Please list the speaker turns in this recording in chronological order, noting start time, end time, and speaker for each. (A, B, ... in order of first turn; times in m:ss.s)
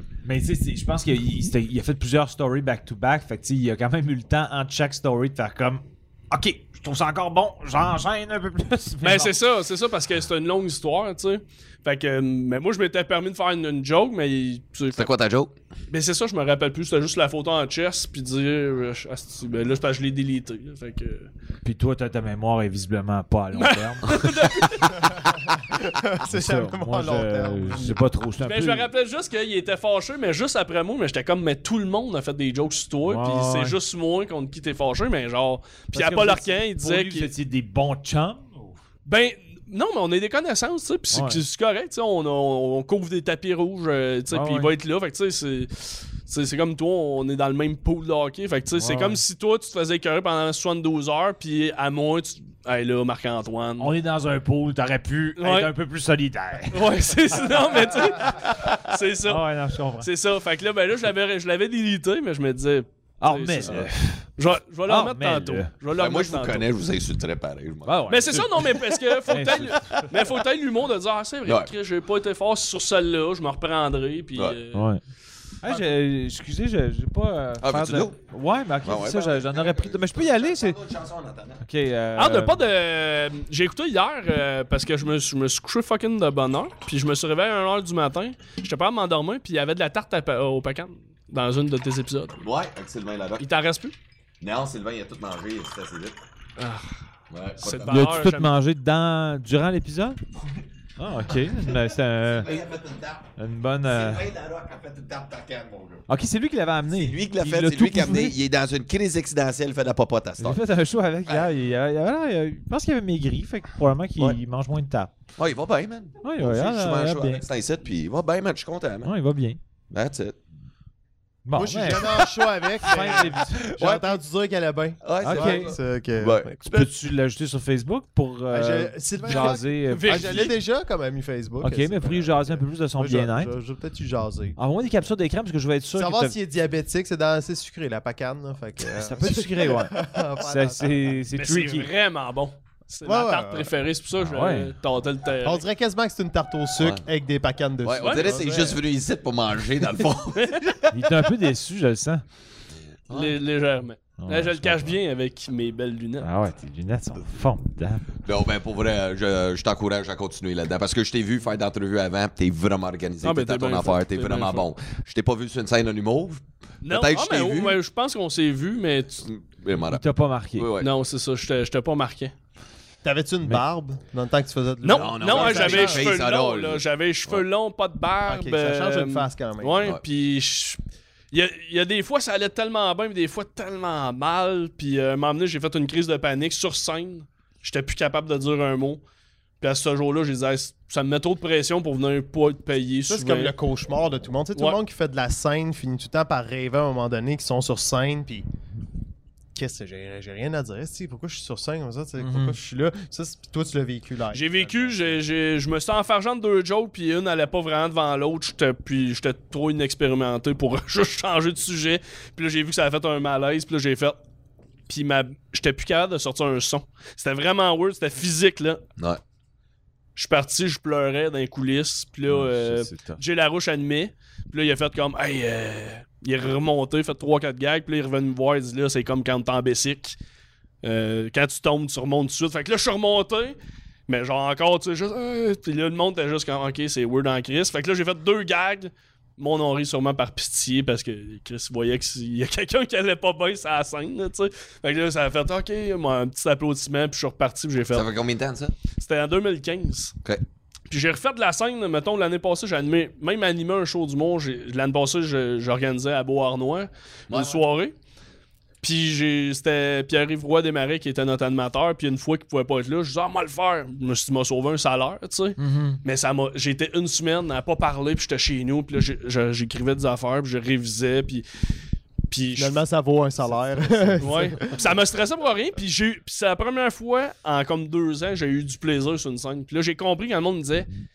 0:00.2-0:09.4 A
0:09.0-0:15.1 B
0:15.0-0:15.5 C
0:15.9-0:21.3 B
0:21.6-0:24.2 A
0:23.5-0:25.2 B
0:25.0-0:28.0 D
0:26.2-0:28.9 A
0:28.4-0:37.3 B
0:33.1-0:33.8 A
0:35.9-0:38.8 A
0:39.0-0:53.9 B
0:41.1-0:41.4 A
0:44.3-0:44.7 A
0:48.8-0:49.2 A
0:53.8-0:58.5 A
0:55.4-0:55.7 B
0:56.7-0:59.4 B
0:59.3-1:00.1 A
1:00.0-1:06.7 B
1:03.2-1:04.3 A
1:03.6-1:03.9 C
1:04.9-1:05.7 A
1:05.9-1:08.6 C
1:07.8-1:08.7 A
1:08.1-1:14.9 B
1:09.3-1:10.0 A
1:09.8-1:10.1 C
1:11.4-1:11.7 C
1:14.7-1:15.0 A
1:15.6-1:20.8 A
1:17.6-1:18.2 C
1:18.8-1:21.6 C
1:21.6-1:22.6 A
1:22.2-1:32.4 B
1:32.4-1:33.4 C
1:33.4-1:33.9 B
1:34.4-1:36.2 C
1:36.6-1:36.9 B
1:37.3-1:38.2 C
1:37.6-1:38.5 B
1:37.9-1:40.2 A
1:41.0-1:42.5 A
1:42.2-1:43.3 C
1:43.4-1:44.3 A
1:43.9-1:46.0 C
1:46.1-1:48.4 A
1:46.9-1:50.6 C
1:50.4-1:55.1 A
1:55.4-1:59.1 C
1:56.2-1:57.4 A
1:59.0-1:59.6 A
1:59.9-2:00.4 C
2:01.5-2:02.3 A
2:01.6-2:06.6 D
2:02.8-2:04.1 A
2:02.8-2:04.2 C
2:05.0-2:06.9 C
2:05.2-2:05.8 A
2:06.7-2:10.5 A
2:08.5-2:14.6 D
2:09.2-2:10.6 B
2:11.6-2:13.5 A
2:14.6-2:16.4 A
2:16.0-2:21.2 D
2:18.8-2:21.9 A
2:21.4-2:25.6 B
2:23.0-2:23.7 D
2:24.2-2:24.7 A
2:25.4-2:28.8 D
2:27.8-2:31.1 C
2:28.0-2:28.5 B
2:30.3-2:30.7 B
2:30.9-2:32.2 A
2:33.1-2:33.4 C
2:33.1-2:36.3 B
2:34.2-2:35.0 A
2:36.2-2:38.1 A
2:38.2-2:47.8 C
2:43.2-2:44.7 B
2:46.8-2:49.3 B
2:49.2-2:50.0 C
2:49.9-2:50.7 A
2:50.6-2:50.9 C
2:50.8-2:52.3 B
2:53.0-2:56.2 D
2:54.8-3:00.8 B
2:54.9-2:57.4 C
2:58.3-2:59.9 D
3:01.3-3:09.0 B
3:09.6-3:13.5 B
3:13.1-3:18.5 D
3:19.6-3:25.1 D
3:22.2-3:22.6 A
3:24.3-3:34.2 B
3:34.9-3:38.8 B
3:40.2-3:50.2 B
3:42.3-3:43.2 A
3:50.8-3:53.6 B
3:54.1-4:08.1 B
4:07.9-4:08.8 C
4:09.0-4:10.2 B
4:10.9-4:17.9 B
4:17.3-4:17.6 C
4:18.8-4:31.4 B
4:25.6-4:26.0 A
4:32.3-4:32.8 B
4:32.6-4:34.8 D
4:34.2-4:40.9 B